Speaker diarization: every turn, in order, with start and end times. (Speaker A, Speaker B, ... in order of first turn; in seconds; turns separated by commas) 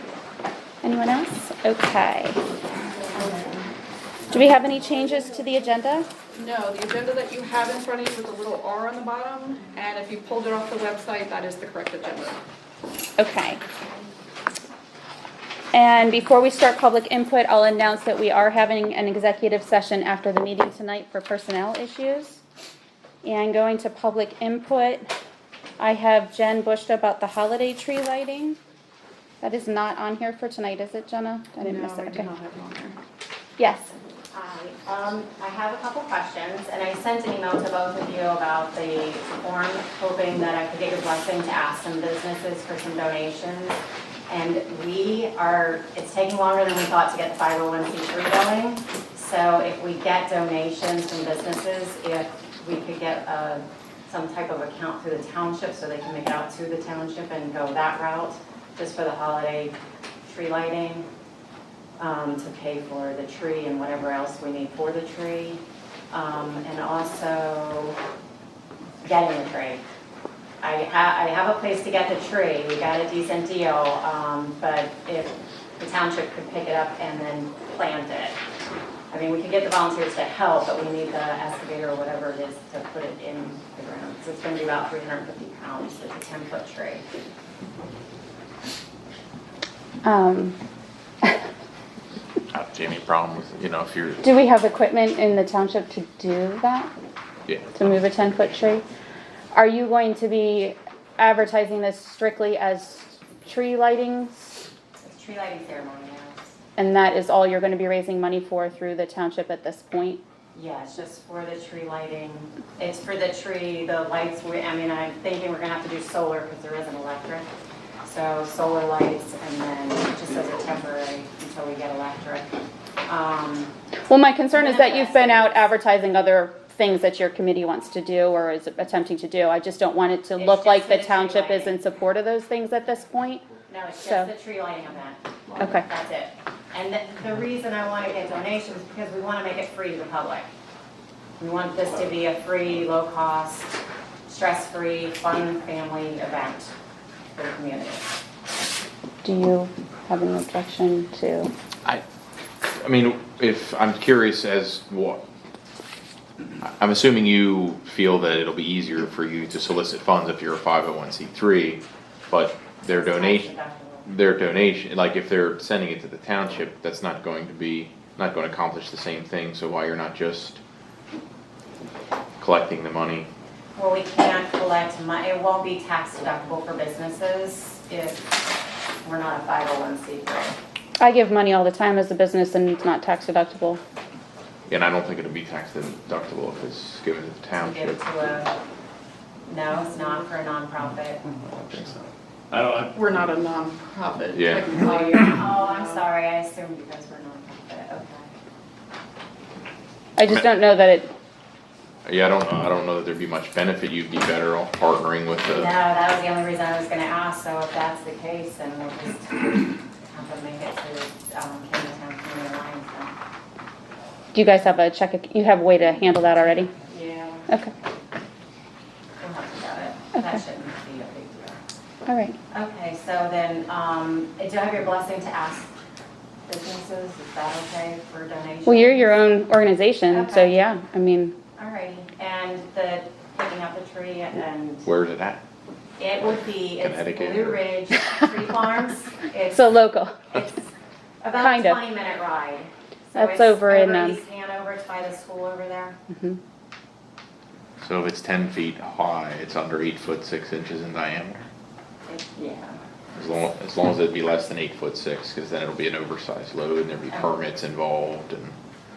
Speaker A: 0.8-2.4, Speaker A: 4.3-6.1, Speaker B: 6.3-12.4, Speaker A: 13.2-13.6, Speaker A: 15.7-22.4, Speaker A: 23.2-25.1, Speaker A: 25.8-28.6, Speaker A: 29.4-32.3, Speaker B: 31.6-33.0, Speaker A: 33.6-33.9, Speaker C: 34.3-61.1, Speaker C: 62.0-68.0, Speaker C: 69.0-69.8, Speaker C: 70.6-78.4, Speaker C: 79.1-87.0, Speaker A: 90.0-90.6, Speaker D: 92.5-94.2, Speaker A: 94.2-96.9, Speaker A: 97.7-98.8, Speaker A: 99.5-104.7, Speaker C: 105.0-106.6, Speaker A: 106.8-110.2, Speaker C: 110.5-117.5, Speaker C: 118.0-122.5, Speaker C: 123.1-123.7, Speaker A: 124.1-133.4, Speaker C: 124.5-125.7, Speaker C: 130.4-131.8, Speaker C: 133.7-140.5, Speaker A: 134.0-134.3, Speaker A: 135.6-135.8, Speaker C: 141.4-143.8, Speaker C: 144.3-146.7, Speaker C: 147.3-148.1, Speaker A: 149.2-151.5, Speaker D: 152.8-155.2, Speaker D: 156.6-163.5, Speaker C: 162.9-164.1, Speaker D: 164.1-170.6, Speaker D: 172.4-173.3, Speaker C: 173.8-178.4, Speaker C: 179.0-180.6, Speaker A: 181.0-183.8, Speaker D: 184.7-188.0, Speaker C: 187.6-188.6, Speaker C: 189.5-191.3, Speaker D: 191.4-192.0, Speaker B: 192.8-195.8, Speaker D: 194.3-194.8, Speaker C: 194.8-198.3, Speaker A: 200.2-201.1, Speaker D: 202.1-205.7, Speaker C: 205.5-213.2, Speaker A: 214.3-216.7, Speaker C: 216.9-217.5, Speaker C: 219.2-221.6, Speaker A: 222.1-222.4, Speaker C: 222.5-225.7, Speaker C: 226.5-229.2, Speaker A: 228.7-231.4, Speaker C: 230.1-230.6, Speaker C: 231.6-234.9, Speaker D: 234.8-235.4, Speaker C: 236.0-240.6, Speaker D: 236.8-237.6, Speaker A: 239.5-240.3, Speaker C: 241.2-246.0, Speaker A: 241.3-241.8, Speaker A: 243.2-244.2, Speaker A: 246.1-246.4, Speaker D: 247.8-251.4, Speaker C: 252.1-252.8, Speaker D: 253.2-258.6